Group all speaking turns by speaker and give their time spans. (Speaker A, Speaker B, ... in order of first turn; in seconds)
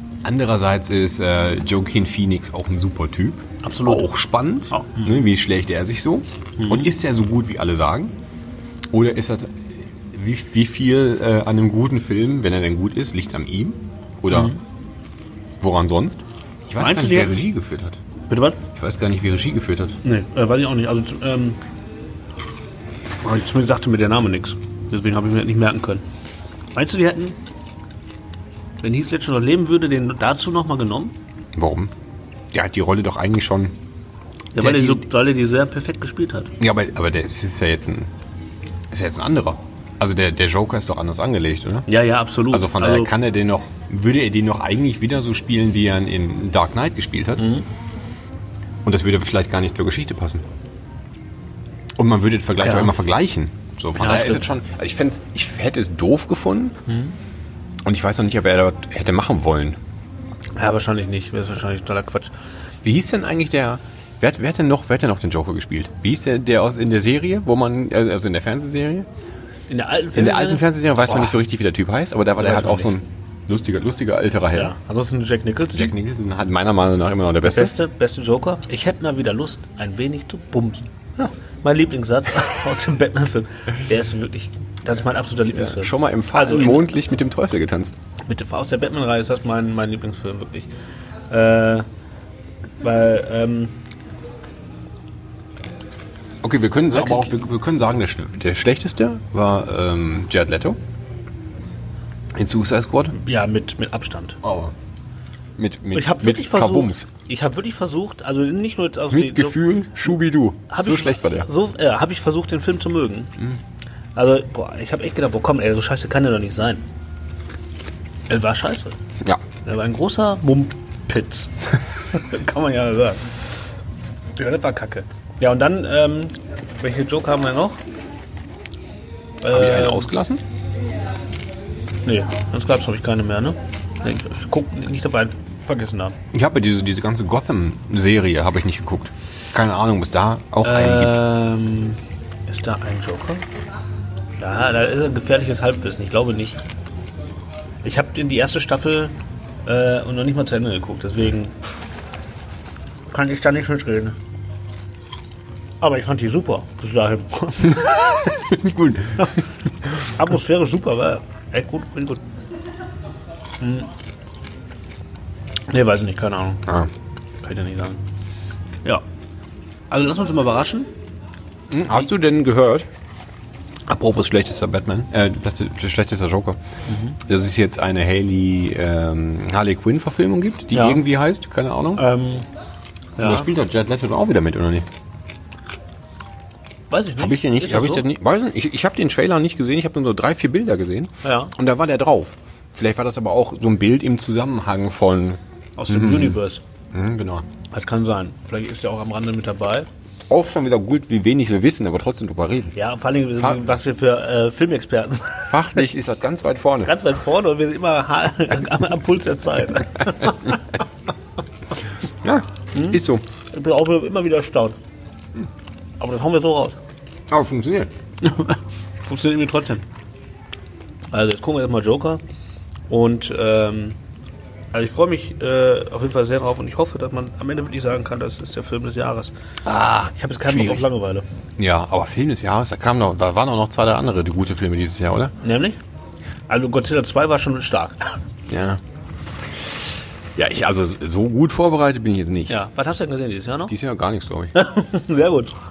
Speaker A: 0.2-8.1, 8.9-14.6, 15.6-18.0, 18.7-20.0, 31.6-31.9, 32.5-33.8, 34.6-35.1, 36.6-38.1, 38.9-41.9, 42.5-47.5, 48.9-50.4, 52.0-56.8, 57.9-59.8, 62.8-69.1, 70.1-74.7, 75.7-77.8, 85.5-88.0, 96.4-100.8, 102.3-103.2, 104.4-104.7, 105.6-107.1, 109.1-111.5, 129.5-130.4, 136.3-141.2, 158.1-159.4, 171.7-172.9, 173.9-176.6, 177.3-182.1, 183.2-184.9, 187.2-196.4, 196.9-197.5, 200.3-202.8, 205.5-206.9, 212.2-213.2, 217.3-217.9, 229.7-230.9, 231.6-235.3, 238.5-238.8, 240.4-242.6, 243.7-244.5
Speaker B: 3.6-4.1, 4.7-5.2, 6.6-6.9, 14.3-14.6, 16.8-17.4, 18.3-18.6, 20.0-21.6, 23.2-26.0, 26.7-27.4, 28.8-31.1, 34.5-36.5, 41.9-43.1, 47.4-47.7, 52.6-52.9, 54.0-54.5, 56.9-57.1, 60.6-62.3, 69.7-71.4, 72.4-72.9, 74.5-75.9, 77.4-87.0, 88.3-90.7, 91.3-91.9, 92.8-93.8, 96.9-97.3, 103.2-104.4, 105.9-109.6, 110.7-113.3, 114.2-116.8, 118.3-119.0, 119.7-121.5, 122.1-123.2, 124.4-127.8, 129.4-130.1, 132.1-136.2, 140.6-143.4, 144.4-146.6, 147.8-149.1, 149.7-151.5, 153.1-154.2, 155.8-158.1, 160.2-162.2, 163.6-163.9, 165.7-166.7, 167.4-168.0, 169.9-170.9, 176.9-177.2, 180.7-181.0, 182.0-182.5, 183.2-183.5, 186.9-188.1, 191.2-191.5, 195.8-196.6, 197.7-199.9, 202.8-205.6, 206.8-210.6, 212.7-213.0, 213.5-214.8, 216.0-216.8, 218.2-219.8, 221.1-222.2, 222.9-224.0, 224.7-229.3, 230.2-231.2, 235.4-235.8, 236.5-238.1, 242.5-243.7, 244.5-245.5